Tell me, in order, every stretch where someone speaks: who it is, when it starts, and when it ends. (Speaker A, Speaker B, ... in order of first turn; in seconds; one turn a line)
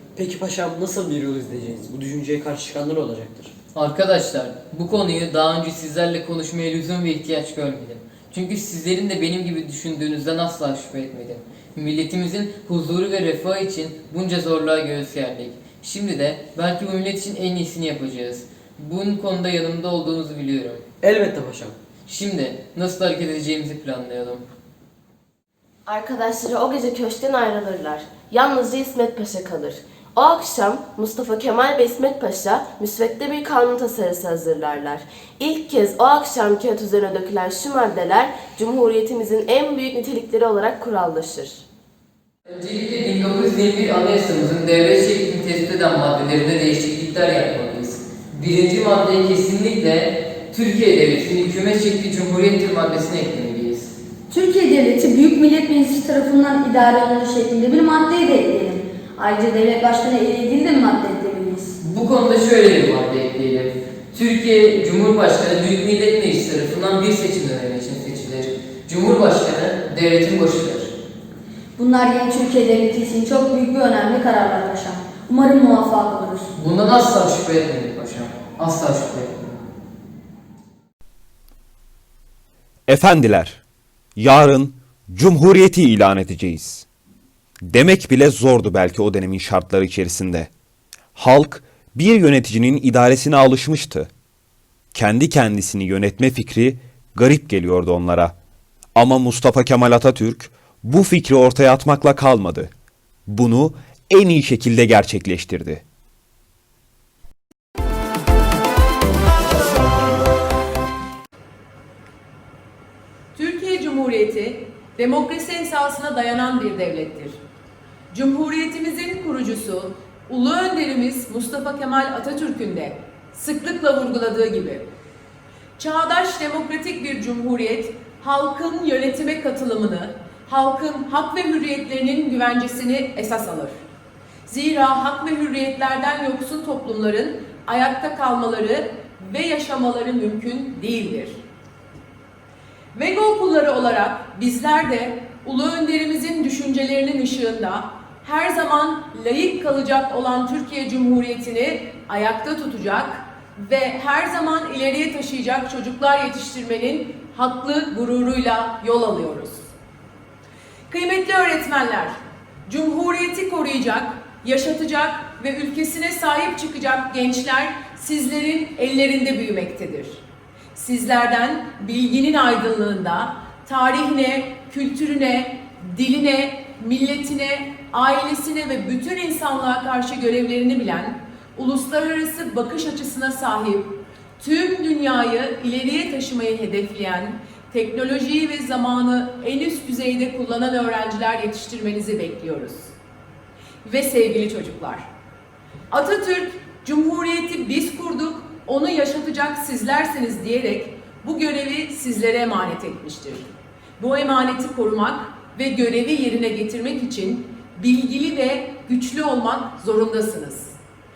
Speaker A: 0.1-3.5
Speaker B: 3.7-20.8
Speaker A: 21.0-21.7
Speaker B: 22.1-24.4
Speaker C: 25.9-41.6
Speaker B: 42.5-53.9
Speaker D: 54.3-61.7
Speaker B: 61.8-70.9
Speaker D: 71.8-76.5
Speaker B: 76.6-79.6
Speaker E: 82.9-83.6
Speaker E: 84.2-86.8
Speaker E: 87.6-90.5
Speaker E: 91.2-94.1
Speaker E: 94.9-98.3
Speaker E: 98.9-102.7
Speaker E: 103.3-105.8
Speaker F: 113.3-117.4
Speaker F: 118.1-124.8
Speaker F: 125.8-133.8
Speaker F: 134.5-141.4
Speaker F: 142.9-159.7
Speaker F: 160.9-170.2
Speaker F: 170.7-192.9
Speaker F: 193.8-195.1
Speaker F: 195.9-210.8